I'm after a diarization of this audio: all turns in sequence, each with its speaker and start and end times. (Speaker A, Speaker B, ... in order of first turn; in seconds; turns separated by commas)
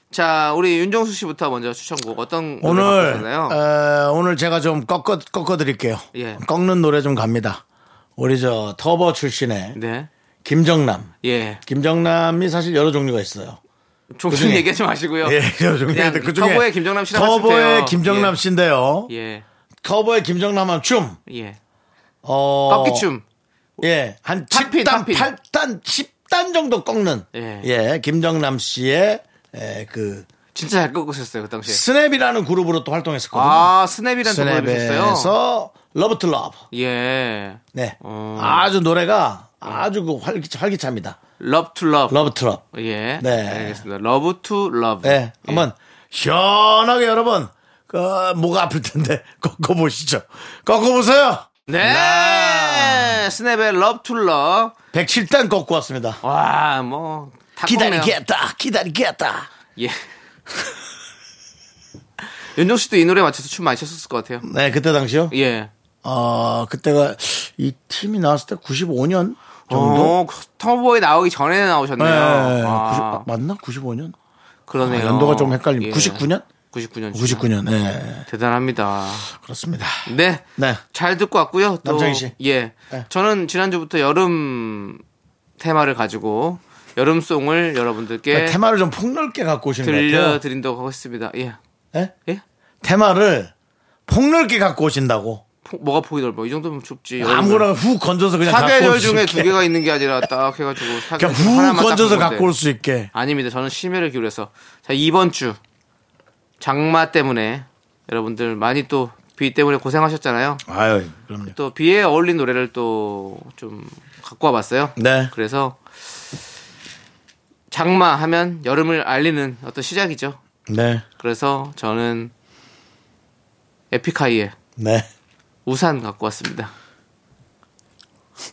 Speaker A: 0.1-3.6, Speaker B: 2.6-7.6, Speaker A: 6.1-6.4, Speaker B: 8.2-9.8, Speaker A: 9.7-10.1, Speaker B: 10.4-11.1, Speaker A: 11.2-11.6, Speaker B: 11.7-13.6, Speaker A: 14.1-18.4, Speaker B: 14.3-14.7, Speaker B: 15.2-19.1, Speaker A: 19.1-19.4, Speaker B: 19.8-21.2, Speaker A: 21.3-21.6, Speaker B: 22.2-23.1, Speaker A: 22.7-23.2, Speaker B: 23.8-30.3, Speaker A: 24.5-25.3, Speaker A: 27.3-27.7, Speaker A: 30.5-31.8, Speaker B: 31.7-33.7, Speaker A: 33.3-35.3, Speaker B: 34.2-36.6, Speaker A: 36.7-38.7, Speaker B: 37.7-41.2, Speaker A: 41.4-42.1, Speaker B: 42.1-42.6, Speaker A: 42.7-45.6, Speaker B: 43.2-43.8, Speaker B: 45.0-53.2, Speaker A: 51.7-54.7, Speaker B: 54.9-56.2, Speaker A: 56.2-58.1, Speaker B: 57.6-59.5, Speaker A: 59.8-60.1, Speaker A: 62.2-64.5, Speaker B: 64.4-65.3, Speaker A: 65.3-65.7, Speaker B: 66.0-70.2, Speaker A: 69.7-73.2, Speaker B: 72.0-74.1, Speaker A: 74.7-77.5, Speaker B: 74.8-76.5, Speaker B: 77.1-78.3, Speaker A: 78.3-79.3, Speaker B: 79.3-80.8, Speaker A: 80.0-85.0, Speaker B: 81.8-82.3, Speaker A: 85.6-88.6, Speaker B: 88.3-90.4, Speaker A: 89.8-91.6, Speaker B: 92.8-93.5, Speaker B: 94.1-95.4, Speaker A: 95.6-97.7, Speaker B: 97.2-99.6, Speaker A: 98.4-102.5, Speaker B: 100.8-103.1, Speaker A: 103.1-105.6, Speaker A: 106.6-110.6, Speaker B: 110.7-111.5, Speaker A: 111.5-115.8, Speaker B: 115.0-115.3, Speaker A: 117.7-120.4, Speaker B: 120.7-121.0, Speaker A: 121.2-122.3, Speaker A: 123.9-124.5, Speaker B: 124.8-125.1, Speaker A: 125.7-126.7